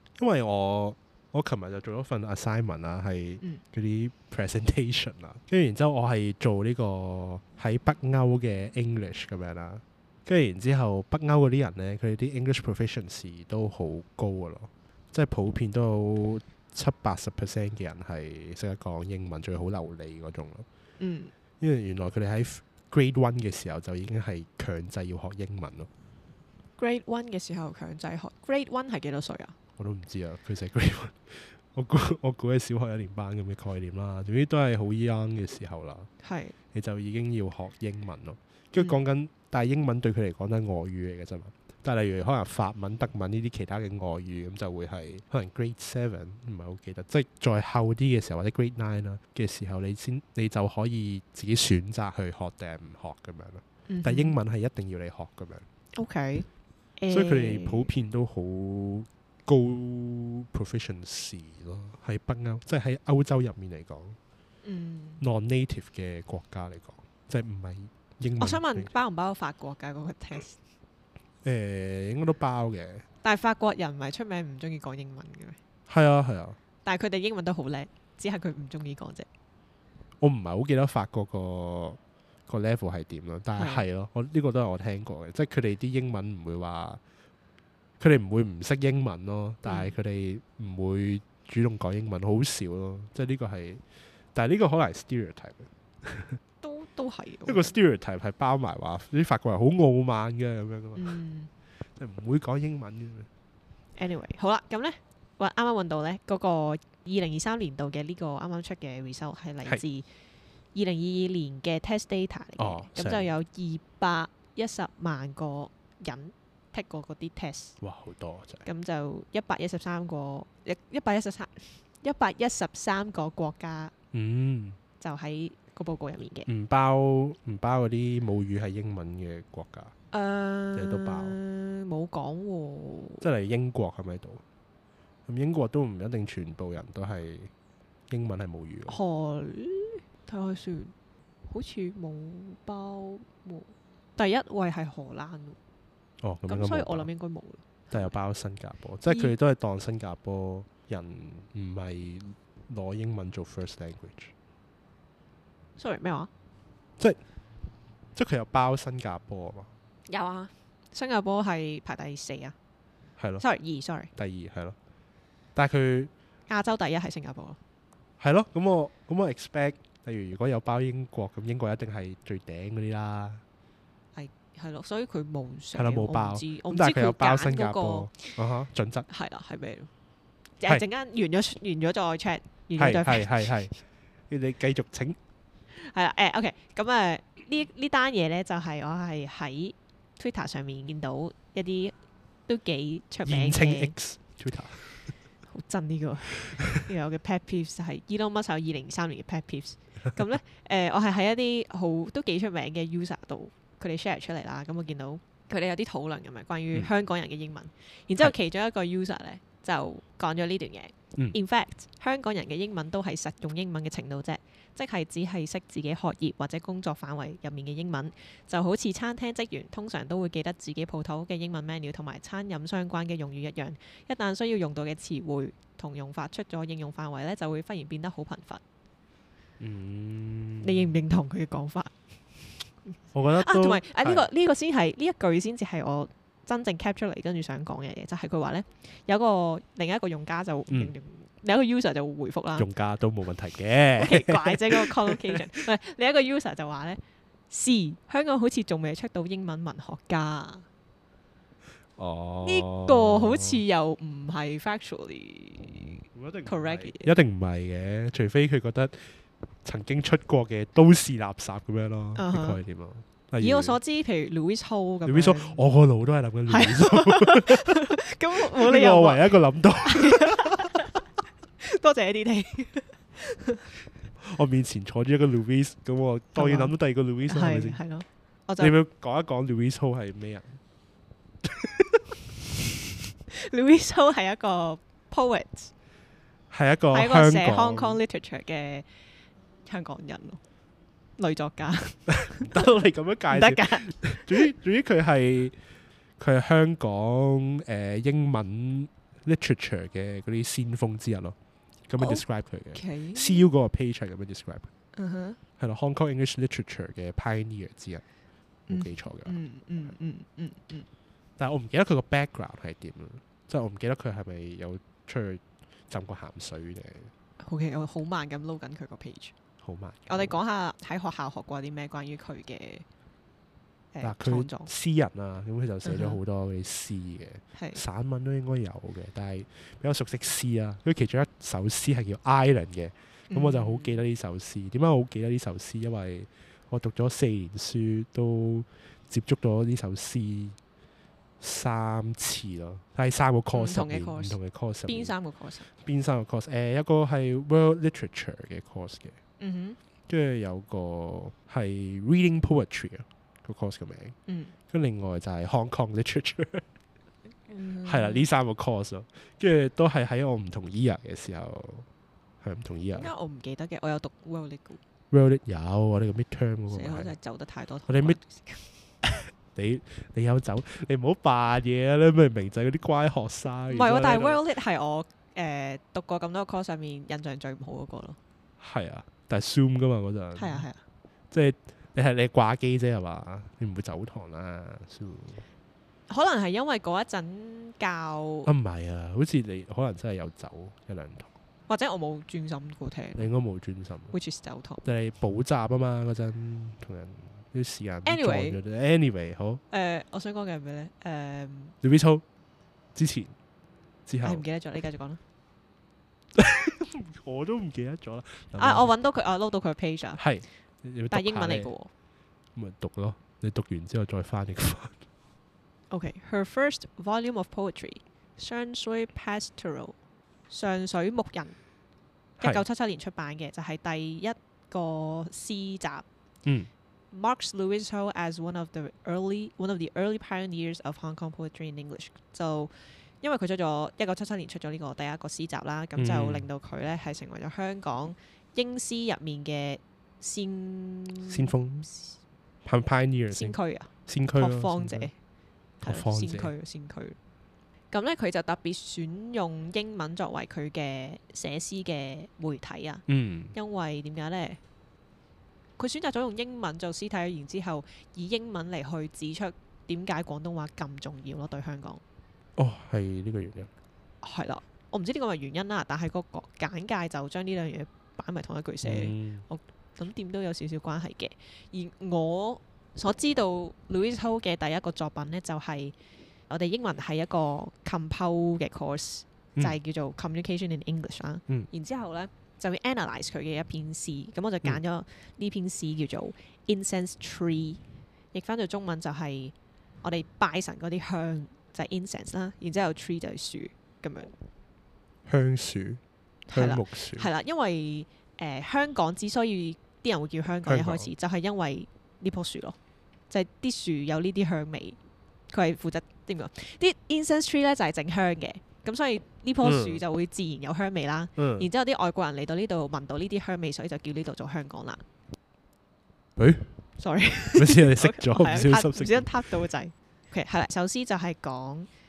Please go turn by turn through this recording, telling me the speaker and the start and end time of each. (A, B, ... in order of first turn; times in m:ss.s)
0:00.2-0:20.7 A
0:21.0-0:21.3 B
0:21.6-0:25.9 A
0:26.8-0:29.6 B
0:29.8-0:36.1 A
0:36.2-0:36.6 B
0:36.7-0:55.6 A
0:53.9-0:54.4 B
0:56.0-0:56.5 B
0:57.0-0:57.9 B
0:57.1-1:04.2 A
1:04.6-1:05.2 B
1:05.2-1:08.9 A
1:08.4-1:10.6 B
1:11.4-1:13.0 A
1:13.2-1:15.6 B
1:15.9-1:16.6 A
1:16.8-1:19.3 B
1:20.2-1:27.0 A
1:23.6-1:23.8 B
1:28.0-1:33.8 A
1:29.6-1:30.0 B
1:34.4-1:36.4 A
1:36.6-1:37.8 B
1:37.5-1:41.2 A
1:41.0-1:41.5 B
1:42.0-1:43.3 A
1:44.0-1:50.1 B
1:50.7-1:57.8 B
1:52.6-1:53.3 A
1:57.8-1:58.6 A
1:58.6-2:03.9 B
2:04.1-2:04.8 A
2:05.0-2:06.5 B
2:06.5-2:09.9 A
2:10.1-2:13.3 B
2:10.8-2:11.4 A
2:13.2-2:14.4 A
2:15.3-2:17.5 A
2:18.1-2:19.0 A
2:18.9-2:20.9 B
2:21.4-2:25.6 B
2:26.2-2:27.1 A
2:26.5-2:27.8 B
2:27.9-2:34.3 A
2:29.1-2:29.3 B
2:35.8-2:36.3 B
2:38.2-2:39.7 A
2:40.1-2:42.6 B
2:43.2-2:43.4 A
2:43.4-2:44.1 B
2:44.2-2:44.8 A
2:45.6-2:46.1 A
2:46.5-2:47.6 B
2:48.2-2:53.4 A
2:54.2-2:58.4 B
2:55.8-2:59.1 A
2:59.1-2:59.9 B
3:00.6-3:03.5 B
3:02.8-3:03.7 A
3:04.3-3:05.2 A
3:05.7-3:12.0 B
3:12.5-3:14.0 B
3:13.3-3:15.1 A
3:15.5-3:48.6 B
3:49.6-3:50.9 A
3:50.6-4:02.7 B
3:53.1-3:54.3 A
4:00.7-4:00.9 A
4:02.6-4:05.4 A
4:04.0-4:10.6 B
4:12.0-4:13.6 A
4:12.4-4:17.1 B
4:16.1-4:23.8 A
4:22.2-4:22.6 B
4:23.4-4:25.6 B
4:25.1-4:30.8 A
4:26.5-4:31.0 B
4:31.6-4:33.7 B
4:34.2-4:37.8 A
4:36.4-4:36.7 B
4:37.3-4:38.7 B
4:38.6-4:40.6 A
4:41.4-4:42.2 A
4:43.3-4:45.7 B
4:46.5-4:48.0 A
4:46.9-4:48.9 B
4:49.7-4:50.4 B
4:51.2-4:54.5 B
4:52.2-4:55.6 A
4:56.2-5:01.4 A
5:01.9-5:04.7 A
5:02.0-5:03.5 B
5:05.0-5:05.4 B
5:05.6-5:08.0 A
5:08.7-5:09.4 A
5:08.7-5:10.9 B
5:11.4-5:17.1 A
5:17.4-5:19.3 B
5:19.6-5:20.4 A
5:20.1-5:22.8 B
5:23.9-5:24.7 B
5:24.0-5:40.6 A
5:25.8-5:26.2 B
5:27.6-5:27.8 B
5:33.3-5:34.0 B
5:41.4-5:45.1 A
5:43.5-5:45.7 B
5:45.7-5:49.2 A
5:49.4-5:49.8 B
5:50.1-5:54.2 A
5:54.3-5:54.5 B
5:54.7-5:56.7 A
5:57.5-5:58.3 B
5:57.8-6:01.9 A
6:02.4-6:03.1 A
6:02.9-6:04.8 B
6:05.1-6:07.1 A
6:06.7-6:08.7 B
6:07.9-6:08.2 A
6:09.5-6:14.4 A
6:13.7-6:18.2 B
6:18.6-6:20.7 A
6:20.4-6:20.8 B
6:21.3-6:25.4 A
6:26.1-6:28.5 B
6:28.5-6:31.3 A
6:31.7-6:33.3 B
6:33.2-6:34.1 A
6:34.1-6:34.8 B
6:34.8-6:39.6 A
6:38.0-6:38.6 B
6:39.7-6:41.8 B
6:41.8-6:42.2 A
6:43.0-6:43.3 A
6:44.1-6:44.4 A
6:44.2-6:45.2 B
6:46.4-6:48.9 A
6:48.6-6:50.2 B
6:50.2-6:51.7 A
6:51.1-6:51.9 B
6:52.6-6:55.0 A
6:55.9-7:00.0 B
7:00.5-7:01.6 B
7:02.4-7:06.0 B
7:06.4-7:06.7 A
7:07.1-7:21.5 B
7:16.0-7:16.5 A
7:21.3-7:21.9 A
7:22.6-7:23.6 A
7:23.3-7:25.1 B
7:24.1-7:25.1 A
7:25.8-7:26.5 A
7:25.8-7:27.2 B
7:27.9-7:34.6 B
7:33.1-7:33.6 A
7:35.8-7:42.0 B
7:42.6-7:43.7 A
7:44.2-7:55.9 B
7:48.8-7:49.4 A
7:56.5-8:07.8 B
8:08.3-8:14.4 B
8:15.3-8:16.0 A
8:16.5-8:22.8 B
8:16.5-8:17.3 A
8:20.7-8:21.1 A
8:23.3-8:25.0 B
8:25.5-8:35.0 B
8:29.6-8:30.0 A
8:31.4-8:31.7 A
8:36.4-8:36.8 A
8:37.0-8:41.9 B
8:37.6-8:39.5 A